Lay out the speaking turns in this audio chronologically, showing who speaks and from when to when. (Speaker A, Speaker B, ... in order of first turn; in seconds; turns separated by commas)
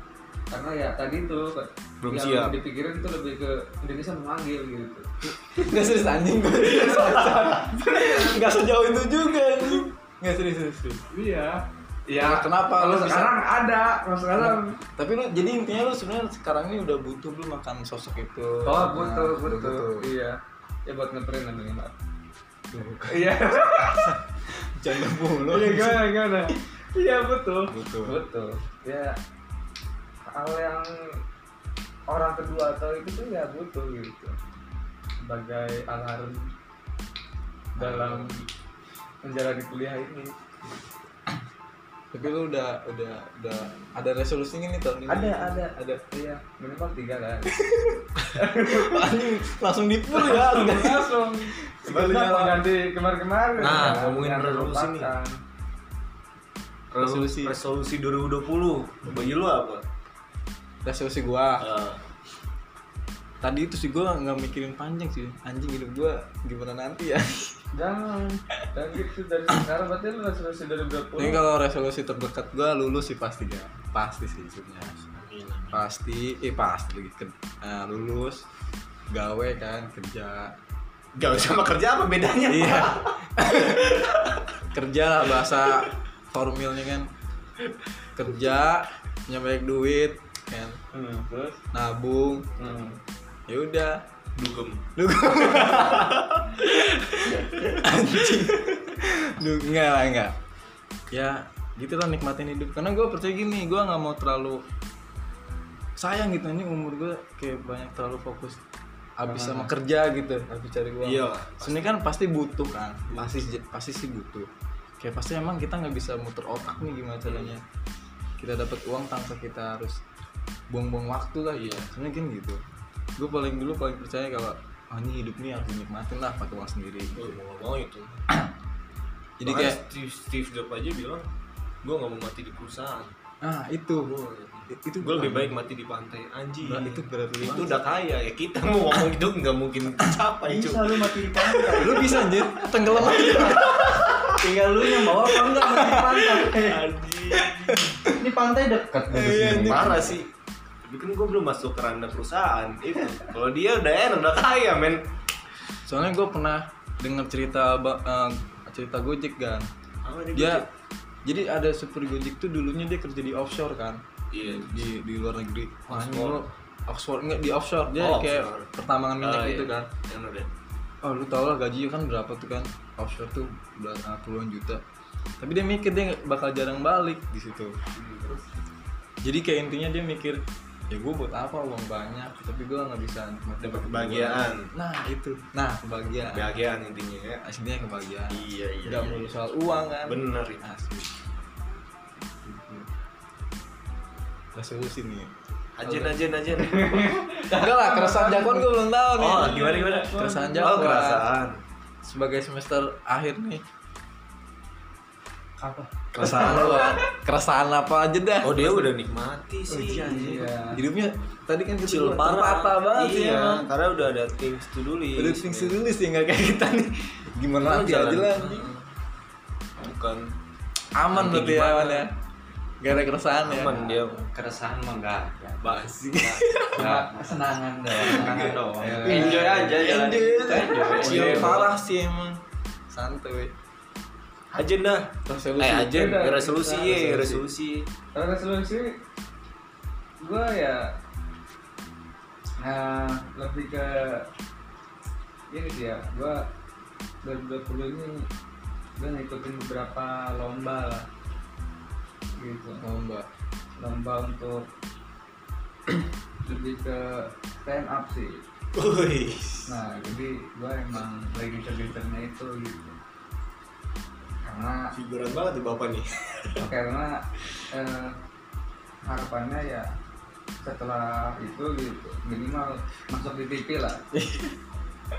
Speaker A: 0.5-5.1, Speaker B: 2.0-2.6, Speaker C: 5.4-11.0, Speaker A: 6.6-8.4, Speaker A: 11.1-14.8, Speaker C: 12.2-13.3, Speaker C: 14.4-20.1, Speaker A: 18.6-21.9, Speaker C: 22.8-23.0, Speaker A: 23.1-24.1, Speaker C: 24.6-26.6, Speaker A: 25.4-29.1, Speaker C: 27.7-28.1, Speaker A: 30.3-30.9, Speaker A: 32.1-34.3, Speaker A: 35.2-36.5, Speaker C: 37.8-38.2, Speaker A: 37.8-38.3, Speaker B: 37.8-38.3, Speaker A: 39.2-40.3, Speaker C: 42.1-46.0, Speaker A: 45.1-47.5, Speaker C: 47.5-48.0, Speaker A: 48.3-49.1, Speaker C: 48.7-52.7, Speaker A: 50.1-55.4, Speaker B: 53.6-55.1, Speaker B: 56.9-59.8, Speaker C: 57.0-57.5, Speaker C: 60.8-61.6, Speaker B: 61.6-62.0, Speaker C: 63.4-67.6, Speaker A: 67.7-71.4, Speaker C: 71.2-75.0, Speaker B: 75.1-75.8, Speaker C: 75.7-78.5, Speaker C: 79.1-80.5, Speaker B: 81.1-83.1, Speaker C: 82.5-84.1, Speaker B: 84.1-84.3, Speaker C: 84.7-87.1, Speaker C: 88.2-90.8, Speaker B: 90.9-91.6, Speaker C: 91.7-92.6, Speaker B: 92.6-93.0, Speaker C: 93.5-94.0, Speaker B: 94.3-94.9, Speaker C: 95.0-100.3, Speaker B: 95.7-96.2, Speaker C: 101.1-104.6, Speaker C: 106.0-108.6, Speaker C: 109.2-114.5, Speaker B: 111.0-111.9, Speaker B: 113.1-113.5, Speaker C: 115.0-117.6, Speaker B: 117.2-117.5, Speaker C: 118.4-120.0, Speaker C: 120.7-122.6, Speaker B: 121.5-121.9, Speaker C: 123.2-127.4, Speaker B: 127.1-128.2, Speaker C: 129.4-129.8, Speaker B: 129.4-131.3, Speaker B: 131.8-133.1, Speaker C: 133.4-134.1, Speaker B: 134.0-141.9, Speaker C: 134.7-135.6, Speaker C: 136.6-137.8, Speaker D: 140.4-146.8, Speaker C: 141.7-144.0, Speaker C: 145.0-146.5, Speaker B: 146.6-147.8, Speaker C: 147.3-148.2, Speaker D: 148.0-150.2, Speaker C: 149.1-150.0, Speaker B: 149.3-150.3, Speaker B: 150.8-155.1, Speaker C: 155.8-159.7, Speaker B: 160.0-160.7, Speaker C: 160.3-160.6, Speaker C: 161.2-169.9, Speaker B: 164.3-164.9, Speaker B: 165.9-166.4, Speaker B: 168.0-170.5, Speaker C: 171.0-174.8, Speaker C: 175.4-177.8, Speaker B: 177.9-178.4, Speaker C: 179.2-186.6, Speaker B: 183.6-184.7, Speaker B: 186.3-187.4, Speaker C: 187.4-191.1, Speaker B: 188.3-189.3, Speaker B: 190.1-190.6, Speaker C: 192.4-192.9, Speaker C: 194.5-195.3, Speaker B: 195.8-197.1, Speaker C: 195.8-196.2, Speaker A: 196.5-198.7, Speaker C: 197.5-201.2, Speaker B: 199.2-201.6, Speaker A: 199.3-200.6, Speaker C: 202.0-203.6, Speaker A: 205.6-206.9, Speaker B: 206.1-207.0, Speaker C: 206.2-208.9, Speaker B: 208.4-210.5, Speaker A: 209.7-210.8, Speaker C: 210.7-213.7, Speaker B: 211.8-215.7, Speaker C: 215.2-218.7, Speaker B: 217.6-218.8, Speaker B: 219.8-220.3, Speaker C: 220.9-222.1, Speaker B: 221.1-222.1, Speaker C: 222.8-223.9, Speaker B: 223.4-224.2, Speaker D: 223.7-231.7, Speaker B: 225.6-226.4, Speaker C: 226.2-226.9, Speaker A: 226.8-229.4, Speaker C: 228.1-228.4, Speaker B: 228.9-229.4, Speaker C: 229.0-233.5, Speaker B: 230.8-231.7, Speaker B: 234.5-237.9, Speaker C: 235.3-236.0, Speaker A: 235.9-237.3, Speaker C: 236.9-237.4, Speaker A: 238.1-238.9, Speaker A: 240.2-240.9, Speaker A: 242.6-244.2, Speaker A: 245.5-246.4, Speaker A: 247.2-248.3, Speaker A: 249.0-251.1, Speaker A: 252.4-252.8, Speaker C: 252.8-253.3, Speaker A: 253.8-254.7, Speaker A: 256.4-258.4, Speaker B: 258.7-259.8, Speaker A: 259.7-262.9, Speaker A: 264.4-264.9, Speaker B: 264.9-266.7, Speaker A: 266.6-268.1, Speaker A: 269.0-269.9, Speaker A: 270.6-274.0, Speaker C: 274.1-274.6